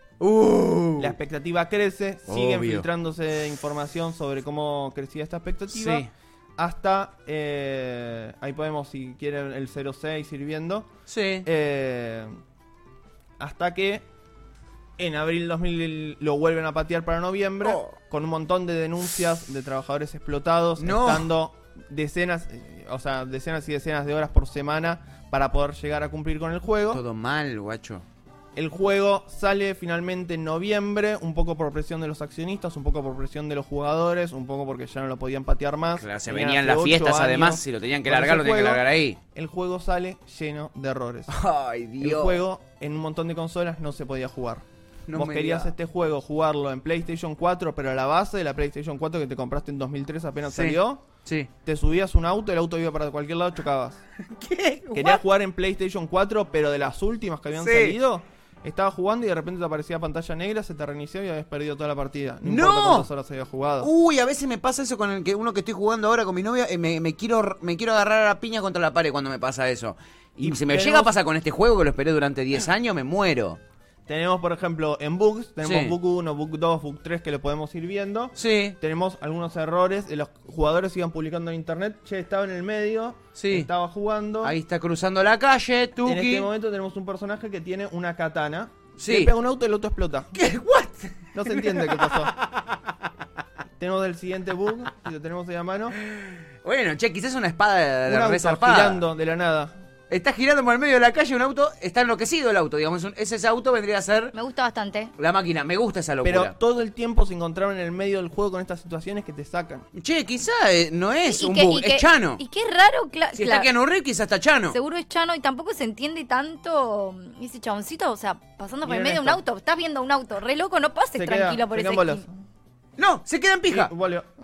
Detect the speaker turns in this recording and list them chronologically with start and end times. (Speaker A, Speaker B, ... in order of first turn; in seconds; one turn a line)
Speaker A: 0.2-1.1
Speaker B: 1.0-10.9
Speaker A: 2.3-2.9
Speaker A: 5.7-6.1
Speaker A: 11.1-11.5
Speaker B: 11.4-12.3
Speaker B: 13.4-14.1
Speaker B: 15.0-27.0
Speaker A: 17.6-18.0
Speaker A: 20.8-21.3
Speaker A: 26.9-28.0
Speaker B: 28.6-41.4
Speaker A: 36.0-39.2
Speaker A: 41.3-42.4
Speaker B: 42.0-51.0
Speaker A: 45.1-45.7
Speaker A: 50.5-51.5
Speaker B: 51.6-54.0
Speaker A: 54.2-55.2
Speaker B: 54.9-63.9
Speaker A: 57.6-58.0
Speaker A: 62.4-63.1
Speaker A: 63.8-73.6
Speaker B: 70.4-71.1
Speaker B: 74.1-84.6
Speaker A: 75.6-76.0
Speaker A: 78.4-78.8
Speaker A: 83.4-83.7
Speaker A: 84.4-86.5
Speaker B: 86.0-90.4
Speaker A: 89.0-89.3
Speaker A: 90.3-92.9
Speaker B: 91.3-92.3
Speaker B: 93.8-96.0
Speaker A: 96.0-99.0
Speaker B: 98.1-99.7
Speaker A: 100.1-104.3
Speaker C: 104.3-105.1
Speaker A: 105.2-106.5
Speaker B: 106.2-109.9
Speaker A: 110.0-112.4
Speaker C: 111.3-113.7
Speaker A: 113.3-114.8
Speaker C: 114.7-122.2
Speaker B: 118.8-119.4
Speaker B: 121.2-122.3
Speaker A: 123.0-123.9
Speaker B: 123.7-124.3